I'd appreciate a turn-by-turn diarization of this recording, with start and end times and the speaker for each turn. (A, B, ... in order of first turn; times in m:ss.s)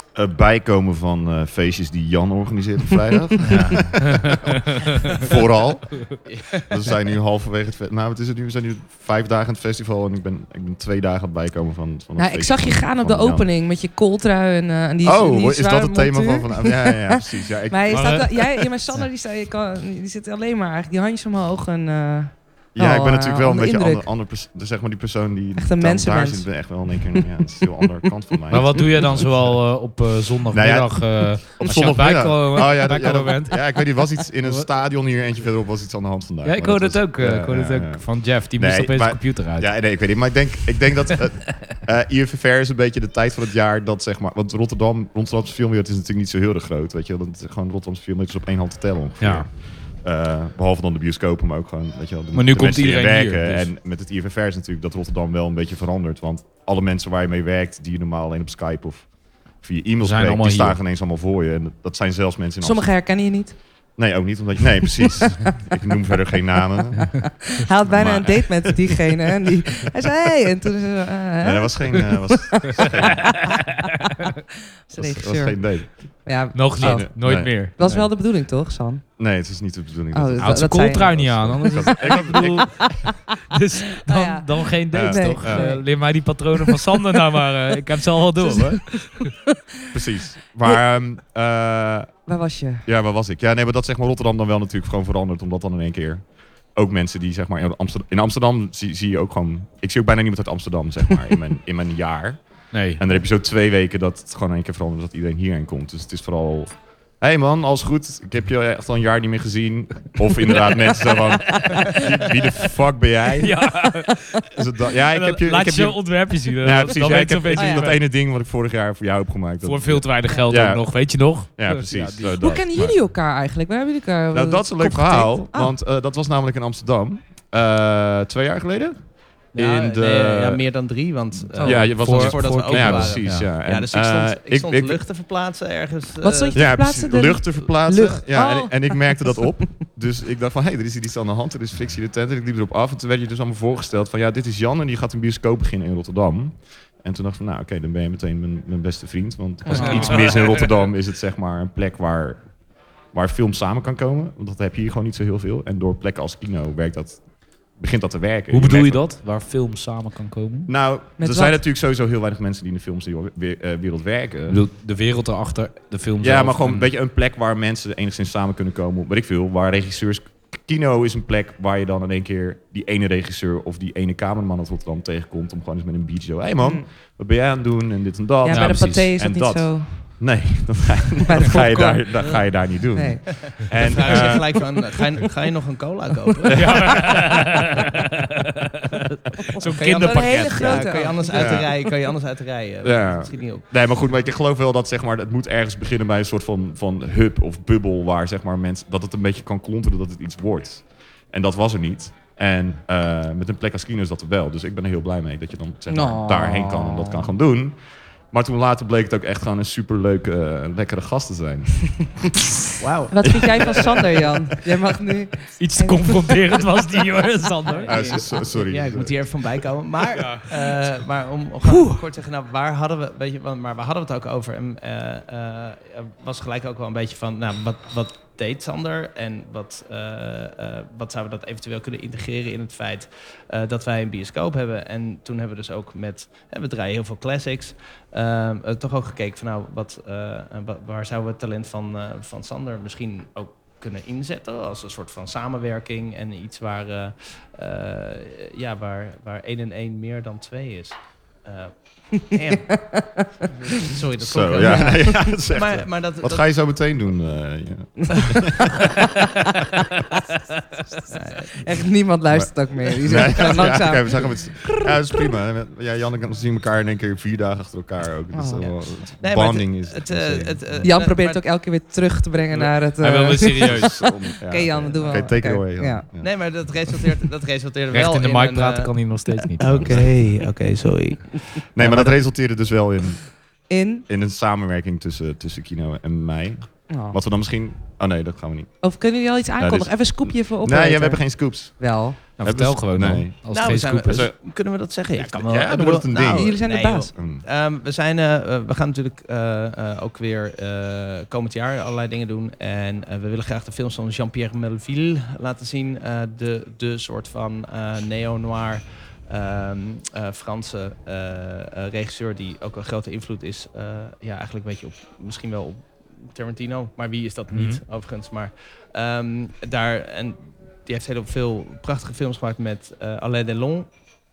0:00.1-0:13.5 A
0:03.6-0:04.4 B
0:06.3-0:06.7 C
0:12.2-0:24.1 D
0:15.0-0:18.4 A
0:17.9-0:18.3 B
0:22.7-0:29.3 A
0:25.6-0:27.3 D
0:28.5-0:34.7 B
0:30.5-1:03.1 A
0:36.4-0:39.8 B
0:49.2-0:49.5 B
0:52.3-0:53.7 B
1:00.0-1:00.8 B
1:02.6-1:03.9 D
1:03.9-1:09.1 A
1:07.6-1:13.4 D
1:11.4-1:13.6 A
1:14.9-1:19.0 D
1:14.9-1:17.6 A
1:16.5-1:18.1 B
1:19.2-1:22.9 A
1:20.1-1:22.7 D
1:20.4-1:29.3 B
1:24.1-1:26.1 D
1:24.9-1:25.8 A
1:28.4-1:29.4 D
1:29.9-1:32.3 A
1:32.3-1:32.8 D
1:32.8-1:53.9 A
1:42.7-1:43.0 B
1:53.4-1:54.5 B
1:54.5-2:03.0 A
1:55.1-1:58.0 B
1:57.5-1:57.9 D
1:59.6-2:02.4 B
2:02.4-2:05.7 D
2:04.3-2:10.6 A
2:09.5-2:17.0 C
2:11.5-2:15.0 A
2:11.6-2:11.9 D
2:11.8-2:13.5 B
2:16.2-2:19.7 D
2:16.5-2:32.6 A
2:29.7-2:30.3 D
2:29.7-2:30.6 B
2:33.1-2:39.1 A
2:38.5-2:40.7 B
2:40.7-2:44.6 A
2:41.2-2:41.6 D
2:44.5-2:46.9 B
2:46.2-3:04.7 A
2:56.6-2:56.9 D
2:58.4-3:00.4 D
2:58.5-2:59.1 B
3:01.2-3:03.9 D
3:03.4-3:07.2 C
3:06.5-3:08.0 B
3:09.5-3:11.2 B
3:09.6-3:13.7 C
3:10.0-3:11.7 D
3:11.3-3:11.9 A
3:12.8-3:32.3 A
3:25.9-3:27.3 D
3:32.8-3:34.2 C
3:33.1-3:36.6 D
3:33.3-3:33.8 A
3:35.6-3:38.2 B
3:37.7-4:12.9 C
3:37.9-3:39.6 A
3:40.2-3:40.5 B
3:41.7-3:42.0 D
4:12.3-4:13.3 D
4:13.7-4:16.5 C
4:14.2-4:19.0 A
4:14.6-4:15.2 D
4:21.1-4:21.6 C
4:21.6-4:25.0 D
4:22.3-4:30.9 A
4:28.3-4:28.8 D
4:29.2-4:31.5 C
4:30.8-4:36.1 D
4:33.0-4:34.0 B
4:33.4-4:36.6 A
4:34.7-4:35.3 C
4:36.2-4:42.1 C
4:37.9-4:40.2 B
4:41.8-4:43.4 A
4:43.7-4:44.0 D
4:44.1-4:48.9 A
4:46.9-4:47.2 D
4:48.8-4:52.2 D
4:49.6-4:54.4 A
4:52.4-4:54.3 B
4:53.5-5:23.9 C
4:55.2-4:57.4 A
4:56.1-4:57.1 D
5:17.5-5:17.8 B